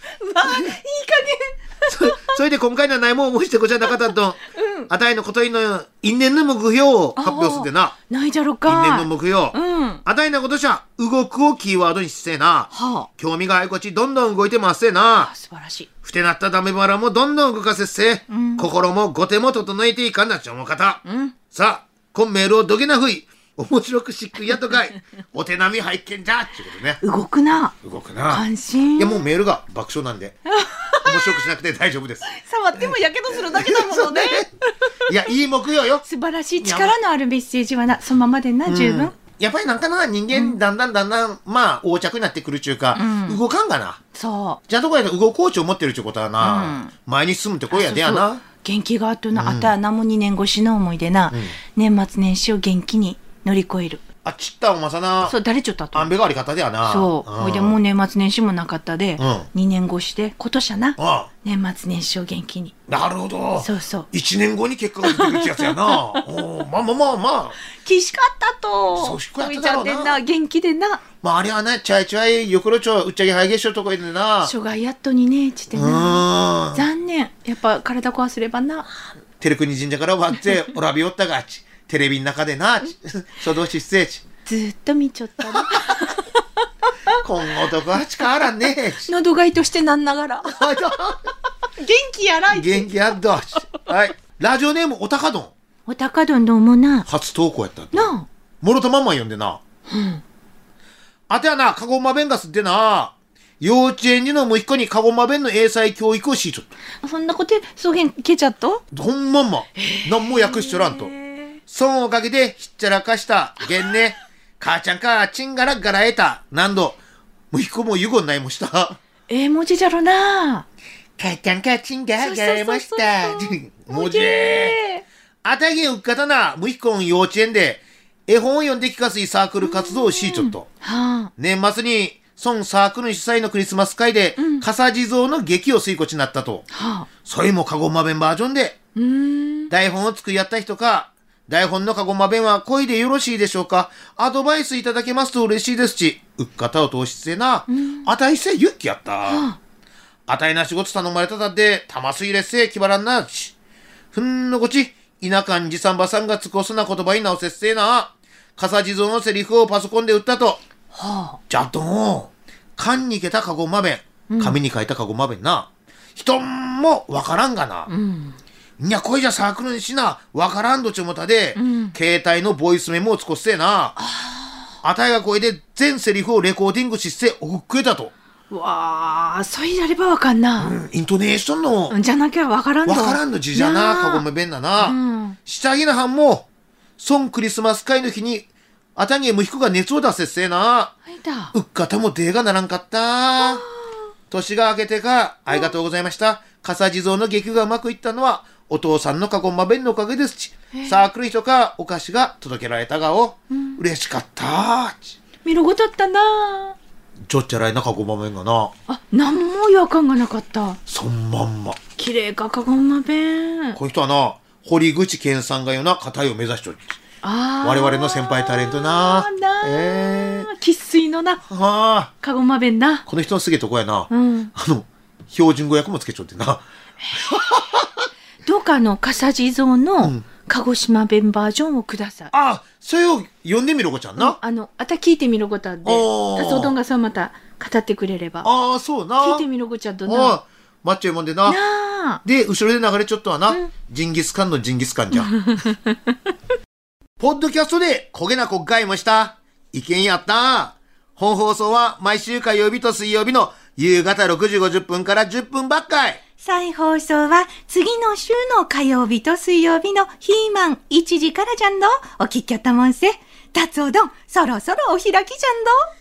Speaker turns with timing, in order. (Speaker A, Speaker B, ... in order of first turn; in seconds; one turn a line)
Speaker A: 0.2-2.4
Speaker B: 0.4-0.8
Speaker B: 1.9-8.0
Speaker A: 4.5-4.9
Speaker A: 7.2-10.0
Speaker B: 8.7-15.3
Speaker A: 12.7-13.1
Speaker A: 15.2-15.9
Speaker B: 16.0-27.0
Speaker A: 18.3-18.7
Speaker A: 21.1-21.4
Speaker A: 27.0-27.7
Speaker B: 27.8-28.4
Speaker A: 28.3-29.3
Speaker B: 29.0-30.4
Speaker A: 30.5-31.5
Speaker B: 31.0-32.3
Speaker A: 32.2-35.1
Speaker B: 32.8-34.5
Speaker B: 35.1-36.0
Speaker A: 36.0-39.1
Speaker B: 36.6-37.0
Speaker B: 38.7-44.0
Speaker A: 40.3-40.6
Speaker A: 42.9-43.4
Speaker A: 44.1-44.6
Speaker B: 44.7-48.4
Speaker A: 46.4-46.9
Speaker A: 47.7-54.0
Speaker B: 49.4-49.8
Speaker B: 51.3-51.6
Speaker B: 54.2-55.4
Speaker A: 55.3-56.1
Speaker B: 56.0-57.8
Speaker A: 56.8-62.8
Speaker B: 59.2-59.5
Speaker B: 61.0-61.3
Speaker B: 62.9-67.6
Speaker A: 63.6-64.1
Speaker A: 65.0-66.3
Speaker A: 67.7-71.0
Speaker B: 69.0-70.2
Speaker B: 71.2-74.5
Speaker A: 74.4-78.9
Speaker B: 75.7-76.9
Speaker B: 79.4-84.2
Speaker A: 84.5-86.3
Speaker B: 85.5-85.9
Speaker B: 87.2-89.1
Speaker A: 89.0-91.0
Speaker B: 90.5-91.2
Speaker A: 91.8-93.2
Speaker B: 92.5-95.5
Speaker A: 95.9-97.1
Speaker B: 97.1-99.6
Speaker A: 97.9-98.3
Speaker A: 99.9-100.2
Speaker B: 101.3-106.7
Speaker A: 107.0-108.8
Speaker B: 108.9-111.1
Speaker A: 109.8-111.5
Speaker B: 111.7-117.0
Speaker B: 117.5-119.0
Speaker A: 119.3-120.7
Speaker B: 121.2-124.8
Speaker A: 122.2-125.0
Speaker B: 125.4-130.7
Speaker A: 129.6-131.3
Speaker B: 131.4-136.7
Speaker A: 134.4-134.7
Speaker A: 136.7-137.1
Speaker B: 137.2-138.8
Speaker A: 139.0-139.7
Speaker B: 139.7-149.5
Speaker A: 147.7-148.1
Speaker A: 149.3-149.6
Speaker B: 150.3-153.6
Speaker B: 154.1-160.6
Speaker A: 160.9-161.4
Speaker B: 161.5-167.9
Speaker A: 164.3-164.6
Speaker A: 167.9-168.4
Speaker B: 168.8-174.0
Speaker A: 171.6-171.9
Speaker A: 174.0-174.7
Speaker B: 174.8-178.1
Speaker A: 178.5-180.8
Speaker B: 180.6-182.0
Speaker A: 181.9-184.2
Speaker B: 182.9-186.5
Speaker A: 184.8-185.4
Speaker B: 187.0-190.9
Speaker A: 191.1-191.5
Speaker B: 191.5-193.7
Speaker A: 193.4-193.7
Speaker B: 194.3-205.2
Speaker A: 200.7-201.1
Speaker A: 203.5-203.8
Speaker A: 205.4-206.8
Speaker B: 207.3-208.7
Speaker A: 208.9-210.8
Speaker B: 210.9-211.8
Speaker A: 212.0-213.8
Speaker B: 213.8-217.0
Speaker A: 217.2-221.4
Speaker B: 217.6-220.5
Speaker B: 221.5-222.1
Speaker A: 222.2-223.1
Speaker B: 223.1-228.1
Speaker A: 224.1-224.5
Speaker A: 227.0-227.3
Speaker A: 228.4-232.3
Speaker B: 230.0-230.3
Speaker B: 232.3-234.4
Speaker A: 234.2-238.5
Speaker B: 235.8-236.8
Speaker B: 238.4-239.5
Speaker A: 239.2-240.4
Speaker B: 240.1-241.6
Speaker A: 241.5-242.2
Speaker B: 242.2-245.4
Speaker A: 245.1-246.0
Speaker B: 247.2-256.2
Speaker A: 256.4-265.7